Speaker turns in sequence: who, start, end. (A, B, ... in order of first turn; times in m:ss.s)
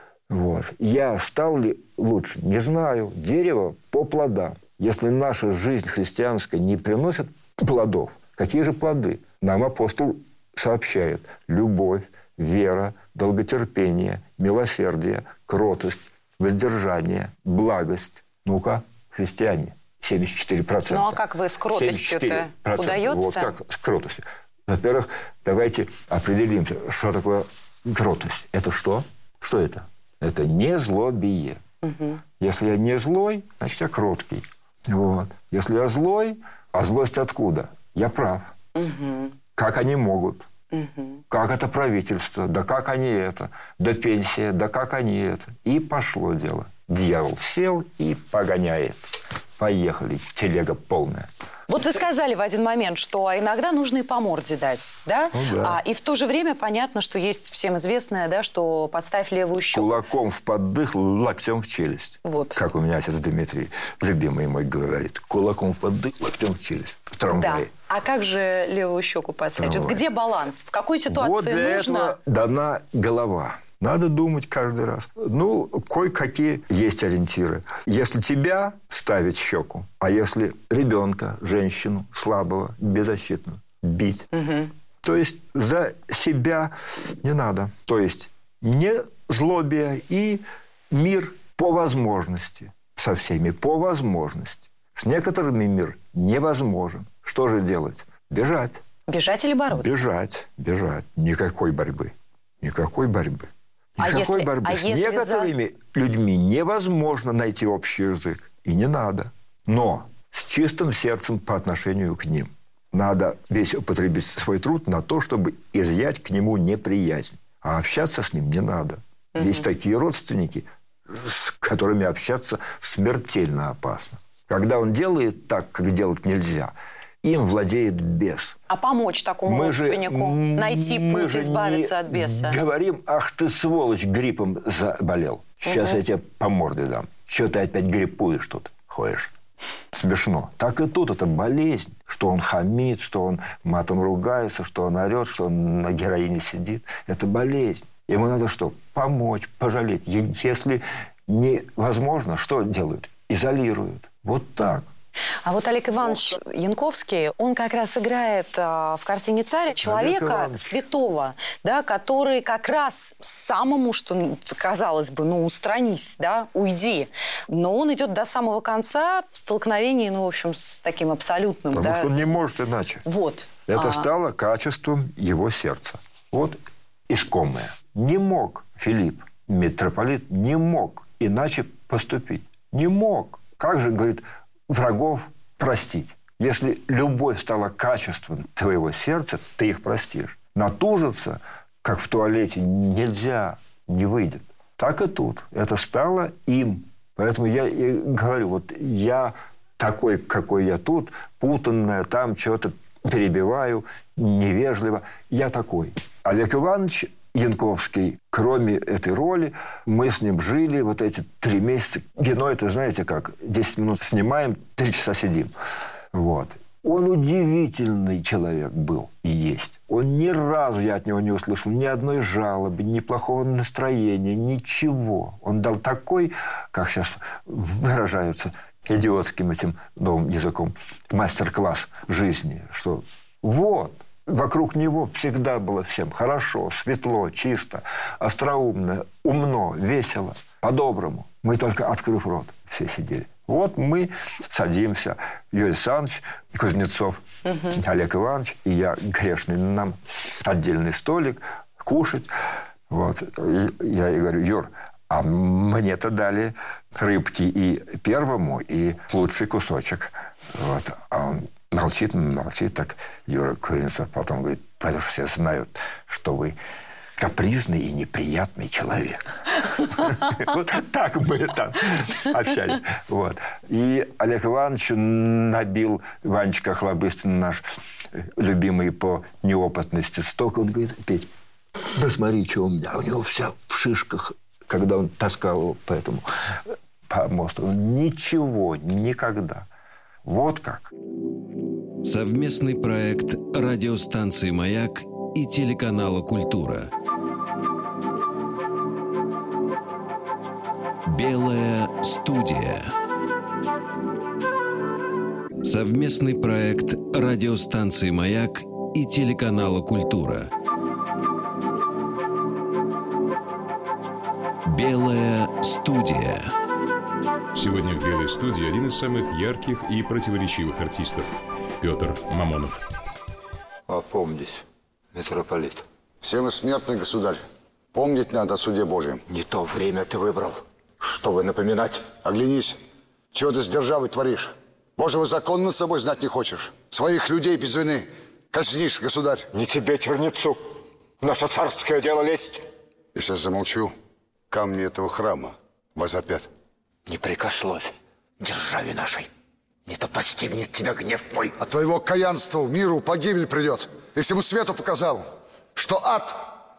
0:00.3-0:31.6 A
0:20.9-0:23.5 B
0:31.8-0:32.2 B
0:32.4-0:38.5 A
0:38.7-0:39.3 B
0:39.6-0:40.5 A
0:40.7-0:41.2 B
0:41.3-0:51.3 A
0:51.7-0:59.9 B
0:55.3-0:55.8 A
0:59.7-1:07.7 A
1:02.2-1:02.6 B
1:07.3-1:12.2 B
1:09.6-1:10.0 A
1:11.1-1:24.3 A
1:24.3-1:24.7 B
1:25.0-1:38.8 A
1:39.1-1:40.0 B
1:39.7-2:08.6 A
1:44.0-1:45.5 B
1:59.4-1:59.6 B
2:08.7-2:12.6 B
2:09.4-2:19.3 A
2:15.6-2:16.0 B
2:19.9-2:34.9 A
2:35.4-2:52.1 B
2:39.8-2:40.7 A
2:51.7-2:53.0 A
2:53.0-2:54.1 B
2:53.7-2:56.6 A
2:57.1-3:35.5 A
3:36.1-4:12.3 A
4:12.9-4:26.6 A
4:27.2-4:49.7 A
4:50.2-4:50.9 A
4:52.0-4:56.9 C
5:01.0-5:02.9 C
5:05.6-5:10.5 C
5:14.6-5:16.5 C
5:17.5-5:22.8 D
5:23.9-5:25.8 A
5:26.2-5:27.4 E
5:27.9-5:29.2 E
5:29.3-5:32.1 A
5:32.2-5:32.8 E
5:33.3-5:39.5 E
5:39.5-5:42.6 A
5:43.1-5:43.9 E
5:44.5-5:46.5 E
5:47.1-5:49.3 A
5:49.9-5:51.6 A
5:51.6-5:56.4 E